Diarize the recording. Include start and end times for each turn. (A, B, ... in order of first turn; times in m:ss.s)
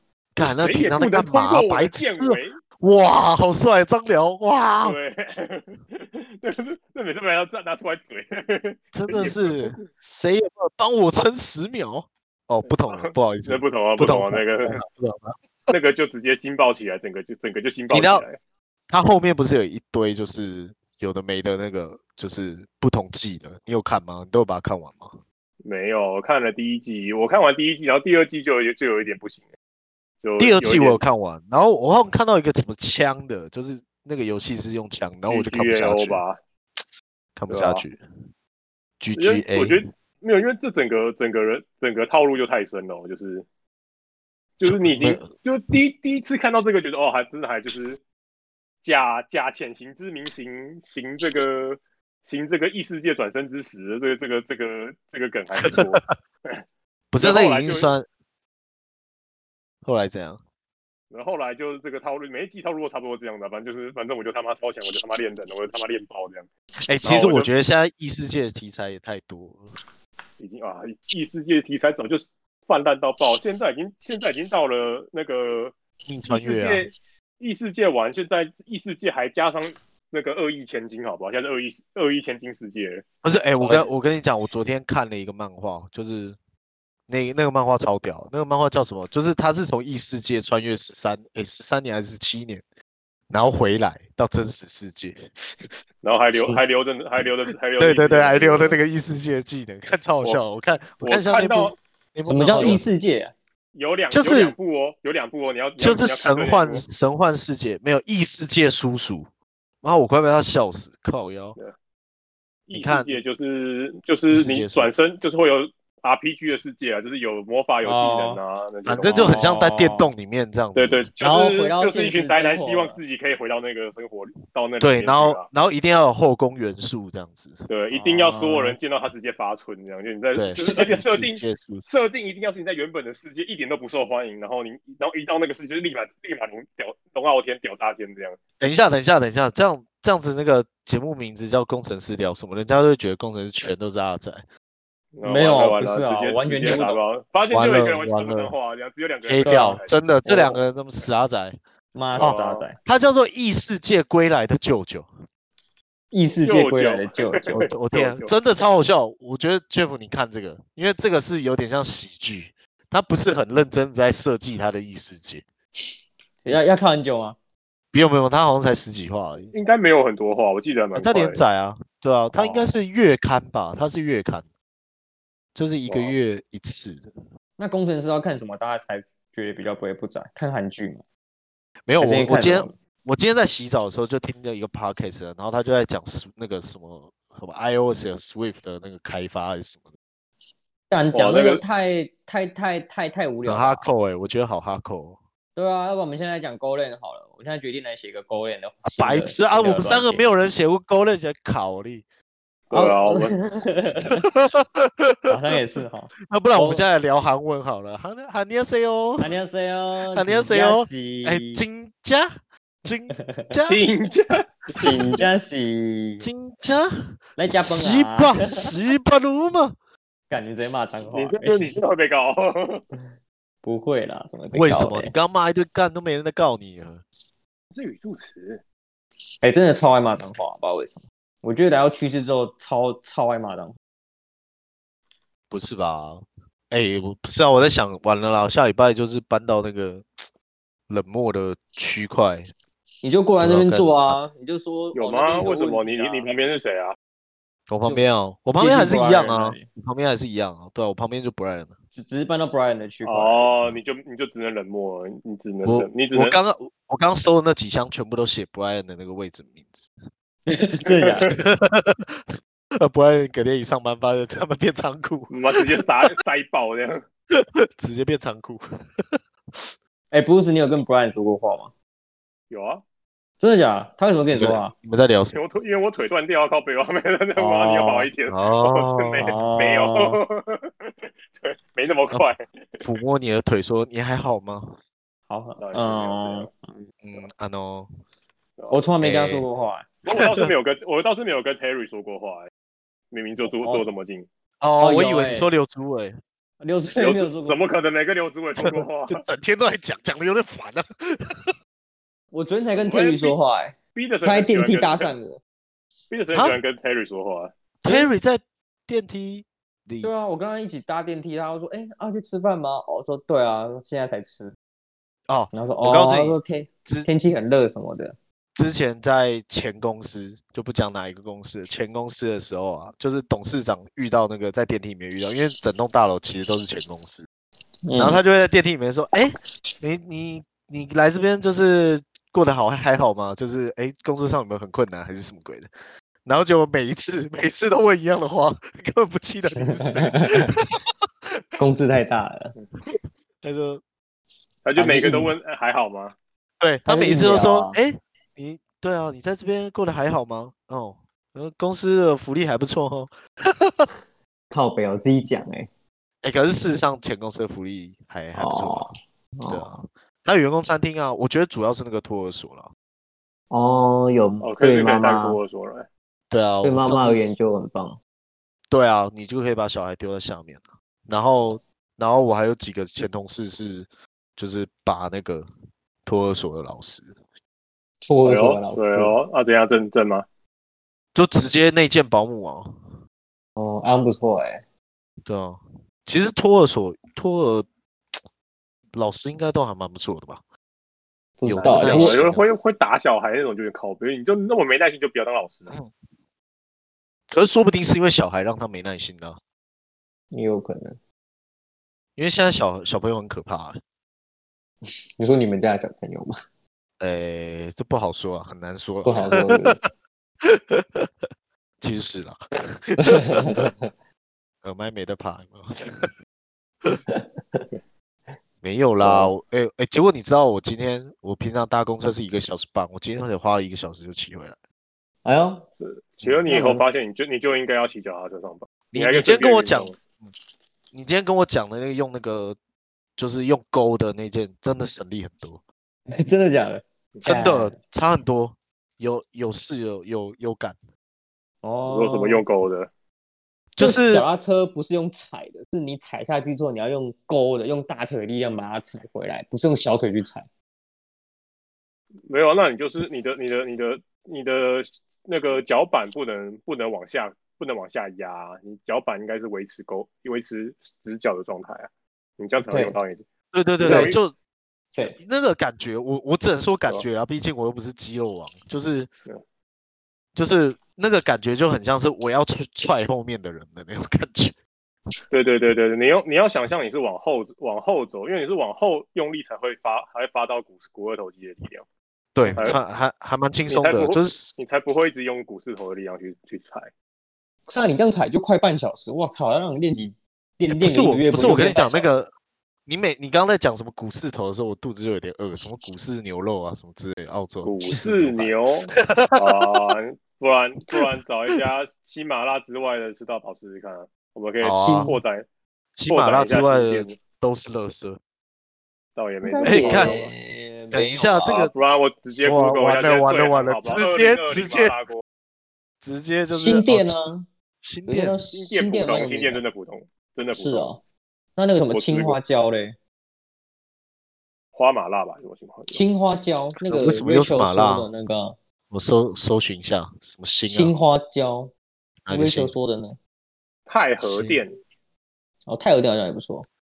0:00.3-0:05.0 A
0:00.4-0:02.6 B
0:04.8-0:09.8 B
0:08.9-0:15.7 A
0:12.6-0:14.8 B
0:15.7-0:18.4 B
0:17.9-0:18.2 A
0:18.9-0:25.2 A
0:25.6-0:29.5 B
0:30.2-0:31.0 B
0:30.4-0:36.2 A
0:35.3-0:36.4 B
0:37.4-0:38.0 A
0:37.5-0:37.8 B
0:39.0-0:39.8 A
0:39.2-0:43.4 B
0:44.6-0:48.0 B
0:44.6-0:45.3 A
0:48.8-0:56.6 B
0:55.6-0:56.0 A
0:57.1-0:58.1 A
0:57.2-0:57.9 B
0:59.8-1:00.4 A
1:01.1-1:06.5 B
1:06.8-1:09.7 A
1:07.0-1:07.5 B
1:10.4-1:15.7 B
1:16.1-1:16.9 A
1:16.3-1:23.0 B
1:23.2-1:26.4 A
1:23.5-1:23.9 C
1:27.1-1:32.6 A
1:33.3-1:35.7 A
1:36.0-1:38.8 B
1:37.8-1:42.8 A
1:41.0-1:41.8 B
1:42.2-1:43.3 C
1:42.5-1:42.8 B
1:43.7-1:46.8 B
1:44.1-1:44.6 A
1:45.8-1:49.3 A
1:49.8-1:51.6 A
1:52.7-1:59.4 B
1:52.7-1:53.2 A
1:54.3-1:54.9 A
1:57.8-1:58.4 C
1:58.8-2:01.1 A
1:59.1-2:00.1 C
2:00.7-2:05.5 B
2:01.2-2:03.0 C
2:04.8-2:07.7 A
2:07.7-2:18.4 B
2:07.9-2:08.8 C
2:10.3-2:11.8 A
2:18.6-2:24.4 A
2:25.1-2:30.6 B
2:25.2-2:27.0 C
2:27.5-2:28.5 A
2:29.2-2:31.6 A
2:29.4-2:29.8 C
2:31.9-2:32.8 C
2:32.2-2:32.6 B
2:32.2-2:35.1 A
2:36.1-2:37.7 C
2:36.4-2:38.3 B
2:37.6-2:45.4 A
2:46.4-2:47.4 C
2:47.9-2:49.5 A
2:49.5-2:51.4 B
2:50.9-2:54.4 A
2:52.3-2:52.7 B
2:55.5-2:57.1 A
2:55.9-2:56.1 B
2:57.6-3:01.0 C
3:01.8-3:09.9 A
3:02.0-3:02.7 C
3:10.9-3:13.9 C
3:11.1-3:11.6 B
3:13.4-3:15.2 A
3:15.6-3:20.2 C
3:18.8-3:22.0 A
3:22.7-3:23.3 B
3:22.7-3:24.3 C
3:24.3-3:25.4 A
3:25.3-3:26.8 C
3:26.2-3:29.3 A
3:29.2-3:31.6 C
3:30.1-3:32.3 A
3:32.8-3:33.8 A
3:33.1-3:33.5 C
3:33.7-3:35.2 B
3:34.8-3:36.3 C
3:36.2-3:39.8 A
3:37.4-3:38.7 C
3:40.3-3:41.8 C
3:41.1-3:42.8 B
3:43.6-3:45.1 C
3:44.5-3:47.0 A
3:47.7-3:48.6 B
3:49.4-3:53.8 C
3:55.5-4:00.3 A
4:00.9-4:02.5 A
4:03.0-4:06.3 C
4:03.4-4:04.2 A
4:04.9-4:07.0 B
4:07.7-4:11.7 A
4:07.8-4:09.7 C
4:11.9-4:13.5 C
4:13.0-4:16.4 B
4:15.6-4:19.9 A
4:20.4-4:21.3 C
4:20.8-4:21.4 B
4:21.3-4:25.9 A
4:25.3-4:27.0 B
4:27.3-4:29.7 A
4:30.1-4:31.7 C
4:32.5-4:32.8 B
4:33.4-4:34.7 C
4:34.4-4:35.4 A
4:35.3-4:42.8 B
4:37.4-4:38.1 C
4:38.3-4:39.3 A
4:39.2-4:40.2 C
4:42.1-4:44.8 A
4:45.3-4:46.8 C
4:45.6-4:46.5 B
4:47.0-4:47.9 A
4:48.7-4:49.9 C
4:49.0-4:49.4 A
4:50.1-4:52.5 B
4:50.1-4:50.5 A
4:53.1-4:54.3 B
4:53.4-4:53.9 C
4:54.6-4:56.2 A
4:54.8-4:55.5 C
4:56.6-4:57.6 C
4:57.0-4:59.2 B
4:58.6-5:01.5 A
5:02.3-5:05.4 C
5:02.7-5:03.4 B
5:03.9-5:05.1 B
5:06.1-5:07.5 B
5:06.3-5:06.6 A
5:07.8-5:10.1 A
5:10.0-5:14.5 C
5:15.3-5:17.1 A
5:15.5-5:18.2 C
5:18.5-5:27.3 A
5:27.8-5:28.2 C
5:28.0-5:35.7 A
5:36.2-5:40.6 A
5:39.6-5:40.6 C
5:41.6-5:42.5 C
5:42.9-5:43.8 A
5:44.6-5:46.1 B
5:44.8-5:45.3 C
5:46.6-5:53.9 A
5:46.8-5:47.8 C
5:54.5-5:55.7 C
5:56.2-5:58.9 A
5:58.3-5:59.7 C
5:59.5-6:02.7 A
6:03.5-6:05.4 C
6:04.4-6:05.9 B
6:06.3-6:07.3 A
6:06.6-6:08.0 C
6:08.7-6:15.5 A
6:16.0-6:17.1 A
6:18.0-6:19.2 C
6:18.2-6:20.2 B
6:21.1-6:22.8 A
6:23.6-6:24.6 C
6:25.2-6:27.7 A
6:28.9-6:30.4 A
6:31.4-6:32.2 C
6:31.4-6:32.4 A
6:31.6-6:35.7 B
6:37.3-6:39.4 A
6:40.3-6:41.0 C
6:42.2-6:43.8 A
6:45.2-6:46.3 C
6:47.0-6:49.8 A
6:49.0-6:49.8 C
6:50.4-6:51.1 A
6:51.8-6:53.7 A
6:53.0-6:53.7 C
6:54.6-6:56.1 A
6:57.1-6:57.6 C
6:58.6-7:04.6 A
6:59.0-6:59.3 C
7:05.2-7:05.7 C
7:05.8-7:09.9 B
7:06.5-7:06.8 C
7:08.9-7:10.3 A
7:10.9-7:12.6 A
7:13.2-7:15.6 A
7:16.1-7:17.8 C
7:17.2-7:20.8 A
7:21.6-7:22.4 C
7:21.9-7:22.9 B
7:23.7-7:24.2 A
7:23.8-7:30.5 C
7:32.3-7:43.2 B
7:42.7-7:43.0 C
7:43.5-7:44.3 A
7:43.8-7:44.2 B
7:43.8-7:44.1 C
7:45.0-7:49.1 A
7:50.3-7:54.5 A
7:55.3-8:01.8 B
8:02.3-8:04.5 A
8:02.4-8:02.8 C
8:03.7-8:06.9 B
8:07.7-8:12.1 C
8:10.7-8:12.3 A
8:12.9-8:19.8 A
8:17.6-8:25.4 B
8:20.9-8:21.6 A
8:24.6-8:25.2 A
8:24.7-8:25.2 C
8:26.0-8:28.2 A
8:26.1-8:27.2 B
8:29.2-8:30.3 B
8:29.4-8:31.5 C
8:29.6-8:30.2 A
8:30.9-8:31.7 A
8:31.5-8:35.2 B
8:32.3-8:35.0 A
8:36.0-8:37.1 A
8:36.5-8:37.5 C
8:37.8-8:38.4 A
8:38.1-8:39.6 C
8:38.5-8:40.9 B
8:40.5-8:41.0 C
8:41.6-8:43.0 C
8:41.9-8:42.4 B
8:44.7-8:46.0 B
8:45.9-8:48.6 C
8:46.9-8:48.1 A
8:48.9-8:50.9 A
8:50.6-8:51.7 C
8:52.2-8:52.7 A
8:52.3-8:53.2 C
8:53.9-8:54.8 B
8:54.2-8:54.6 C
8:55.7-8:56.7 C